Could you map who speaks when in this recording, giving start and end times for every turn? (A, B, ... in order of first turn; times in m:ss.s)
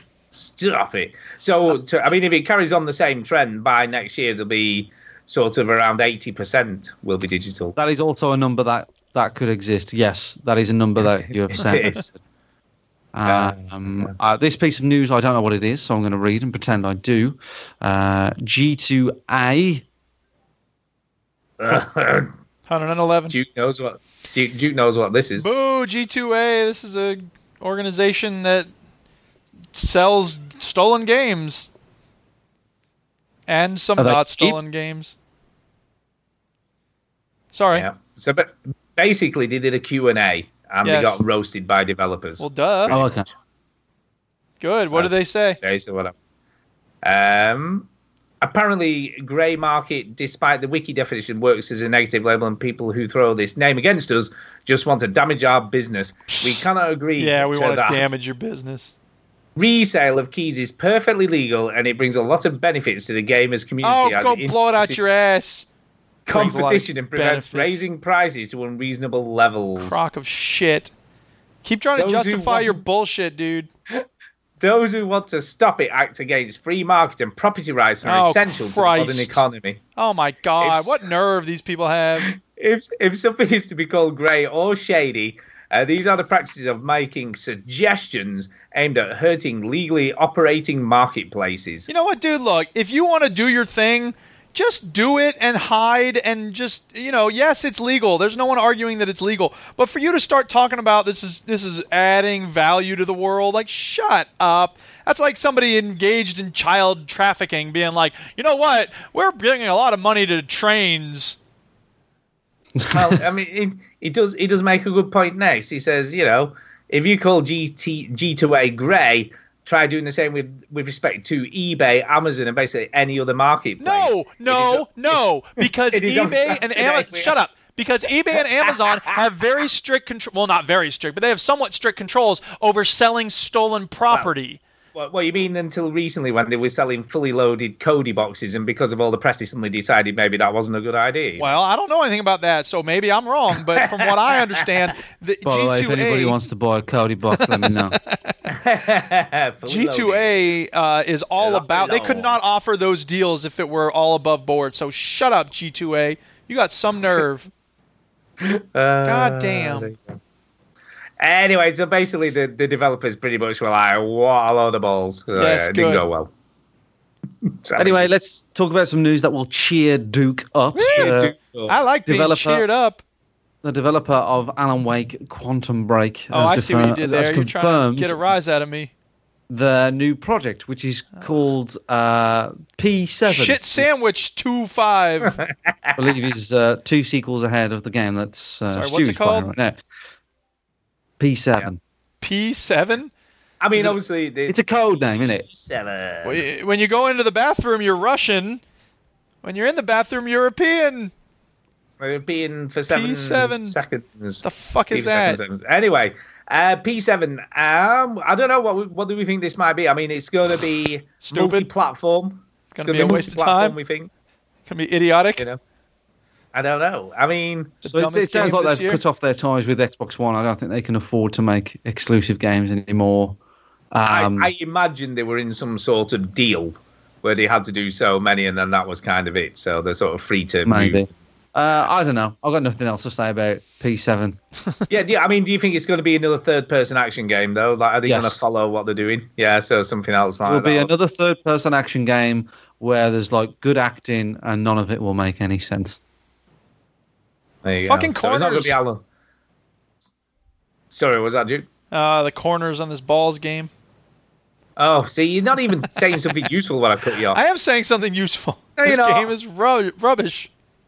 0:00.3-0:07.7 A
0:07.8-0:12.2 B
0:11.0-0:12.1 A
0:13.1-0:19.8 B
0:13.2-0:14.1 A
0:21.6-0:22.3 A
0:22.7-0:23.3 C
0:23.3-0:25.5 A
0:25.4-0:28.7 C
0:29.7-0:31.7 C
0:33.5-0:35.1 C
0:34.0-0:34.6 B
0:37.5-0:37.8 C
0:37.7-0:43.1 A
0:40.8-0:41.2 C
0:42.4-0:43.0 C
0:42.9-0:43.3 B
0:44.6-0:45.6 C
0:44.9-0:46.1 A
0:47.0-0:47.9 A
0:48.4-0:58.1 A
0:56.3-0:56.6 C
0:57.2-0:58.9 C
0:59.6-1:05.1 A
1:03.8-1:05.6 C
1:06.3-1:07.8 C
1:06.3-1:10.0 A
1:09.8-1:10.9 C
1:11.6-1:13.7 C
1:12.0-1:12.8 A
1:14.6-1:19.8 A
1:18.0-1:19.4 C
1:20.0-1:22.3 C
1:20.6-1:21.0 A
1:22.3-1:31.9 A
1:31.9-1:51.4 C
1:52.8-1:53.2 B
1:52.9-2:05.2 A
2:03.8-2:14.6 C
2:05.9-2:07.4 A
2:08.6-2:09.1 A
2:14.9-2:21.6 A
2:21.4-2:26.4 C
2:23.8-2:24.6 A
2:25.4-2:28.0 B
2:27.4-2:28.3 C
2:28.5-2:30.5 A
2:29.6-2:37.5 C
2:31.4-2:32.4 A
2:38.4-2:40.1 A
2:39.0-2:39.9 C
2:41.2-2:46.3 A
2:45.4-2:46.0 C
2:47.6-2:48.1 A
2:47.8-2:51.3 B
2:50.8-2:51.7 A
2:51.7-2:53.0 C
2:52.1-2:52.6 B
2:53.6-2:58.2 B
2:56.3-2:58.9 C
2:59.5-3:03.9 B
3:03.2-3:05.3 C
3:05.2-3:06.0 A
3:06.0-3:09.8 B
3:08.7-3:09.5 C
3:11.2-3:11.8 B
3:12.2-3:13.1 C
3:13.6-3:14.6 A
3:14.5-3:15.4 B
3:15.5-3:16.4 A
3:16.2-3:18.6 C
3:19.4-3:21.1 C
3:22.0-3:34.1 A
3:22.9-3:23.8 C
3:24.4-3:25.4 C
3:31.2-3:31.7 C
3:32.7-3:33.8 C
3:34.7-3:35.4 C
3:36.5-3:37.8 A
3:37.8-3:39.0 C
3:37.8-3:43.4 B
3:43.9-3:44.5 B
3:44.1-3:51.0 A
3:50.6-3:54.4 B
3:54.9-4:00.9 A
3:58.0-3:58.4 B
4:00.4-4:06.0 B
4:07.6-4:09.0 A
4:07.8-4:08.8 C
4:10.9-4:11.6 A
4:11.9-4:13.7 C
4:14.8-4:17.4 A
4:17.3-4:20.5 C
4:18.8-4:19.3 A